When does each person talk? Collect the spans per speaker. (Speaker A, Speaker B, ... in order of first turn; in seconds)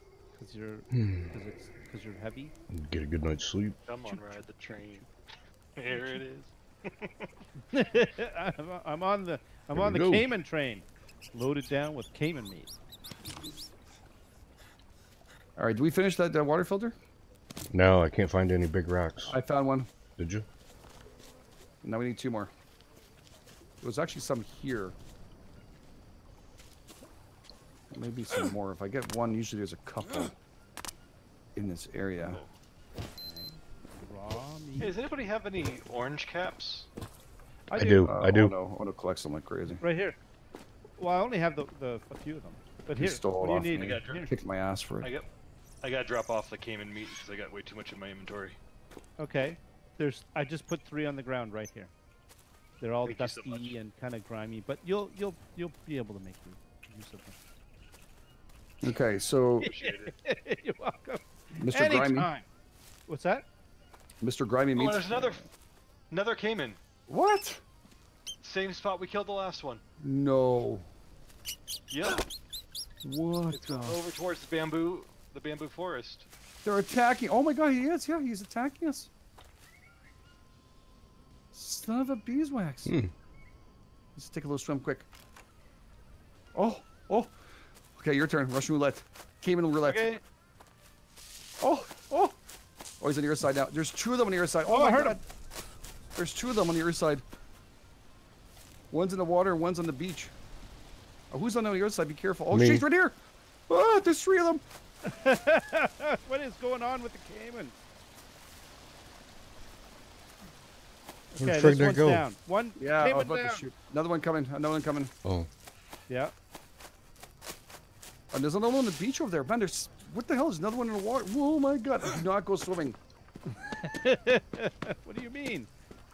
Speaker A: 0.4-2.5, 4.0-5.0, 5.8-6.2, 7.7-12.7, 33.2-35.0, 37.7-38.1, 39.8-40.2, 41.0-44.3, 49.2-51.9, 52.8-57.4, 59.6-62.5, 63.1-63.5, 89.8-90.2, 94.7-95.2, 105.0-107.8, 111.3-113.6, 123.5-125.7
Speaker B: 0.9-1.3, 2.7-3.8, 9.7-10.3, 17.7-19.4, 20.2-20.4, 37.8-38.5, 82.8-83.1, 102.5-102.8, 111.4-112.2, 115.2-115.5
Speaker C: 3.9-5.0, 5.8-7.2, 32.2-32.5, 34.8-36.9, 43.7-44.3, 45.0-45.3, 45.8-48.6, 53.0-53.7, 59.6-60.1, 64.7-65.4, 66.1-66.8, 68.4-69.8, 71.9-72.2, 73.5-76.3
Speaker D: 15.6-16.9, 19.3-19.9, 21.8-22.5, 23.8-25.0, 27.9-30.3, 31.6-32.4, 38.0-39.8, 43.0-45.1, 58.8-59.7, 61.6-62.3, 64.2-65.4, 67.1-67.6, 70.0-70.9, 73.0-74.0, 76.6-79.1, 81.5-83.0, 84.1-85.1, 86.5-87.3, 87.9-90.1, 91.6-92.3, 93.0-95.2, 96.2-97.2, 98.9-100.3, 101.3-103.2, 103.7-104.6, 112.8-115.1, 118.3-123.0